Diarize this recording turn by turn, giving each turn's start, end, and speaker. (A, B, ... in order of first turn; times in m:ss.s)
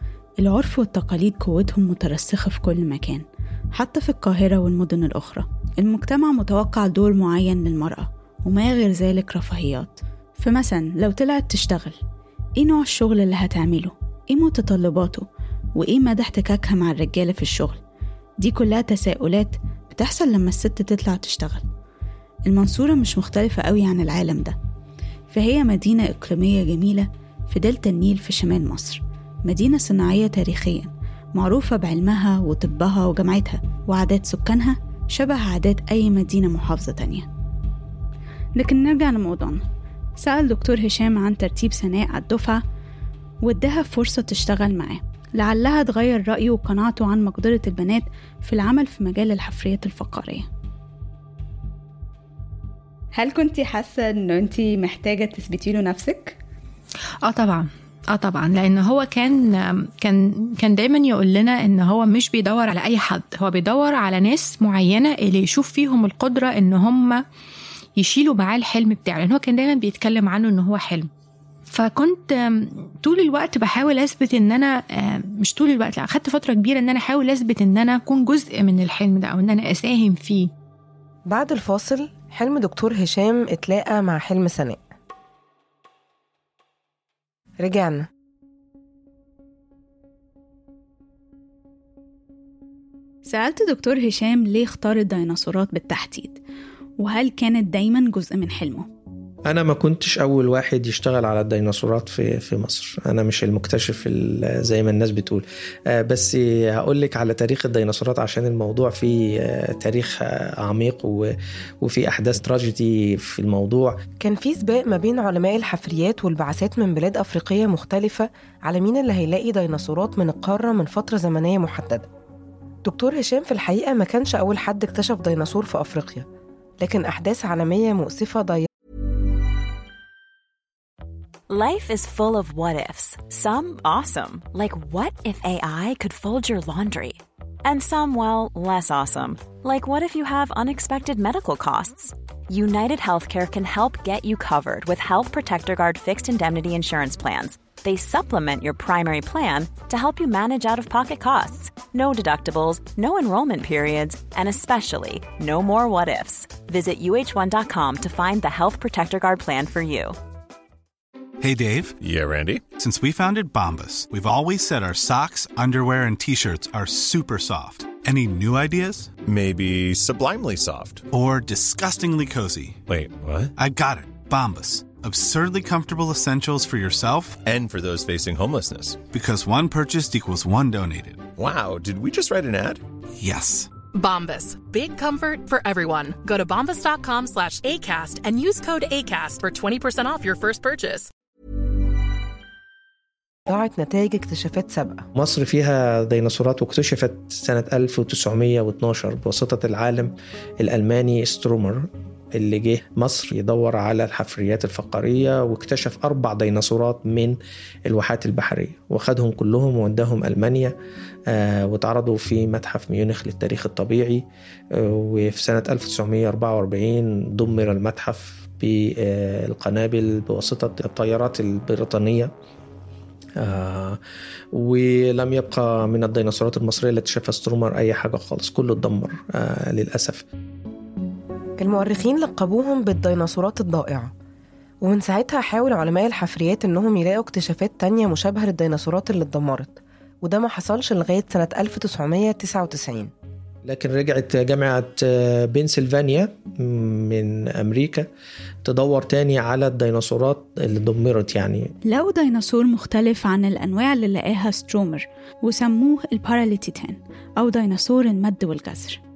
0:00.4-0:12.0 A
0:12.6-0:17.8 A
0:18.4-0:21.6 A
0:22.5-0:24.5 A
0:25.3-0:37.3 A
0:38.6-0:39.6 A
0:40.2-0:42.6 A
0:43.4-0:50.5 A
0:53.1-0:56.4 A
0:57.2-1:07.2 B
1:08.0-1:11.1 B
1:11.7-1:20.5 B
1:21.3-1:24.8 C
1:27.6-1:28.1 C
1:33.3-1:36.4 A
1:37.0-1:38.9 A
1:39.5-1:54.0 D
1:54.2-2:02.1 C
2:02.8-2:06.3 C
2:06.8-2:08.7 C
2:11.5-2:40.2 E
2:41.4-2:42.0 F
2:42.0-2:42.6 G
2:42.7-2:49.2 F
2:49.3-2:51.0 G
2:51.1-2:52.8 F
2:52.9-2:53.5 G
2:53.6-2:57.4 F
2:57.5-2:59.0 G
2:59.1-3:01.3 F
3:01.4-3:02.8 G
3:03.2-3:03.7 F
3:03.9-3:11.1 H
3:13.5-3:15.0 C
3:15.1-3:30.7 D
3:31.3-3:42.3 D
3:43.4-3:44.0 D
3:44.5-3:50.2 D
3:51.6-3:54.1 C
3:54.8-4:03.1 C
4:03.6-4:08.1 D
4:08.6-4:11.7 D
4:11.9-4:19.0 A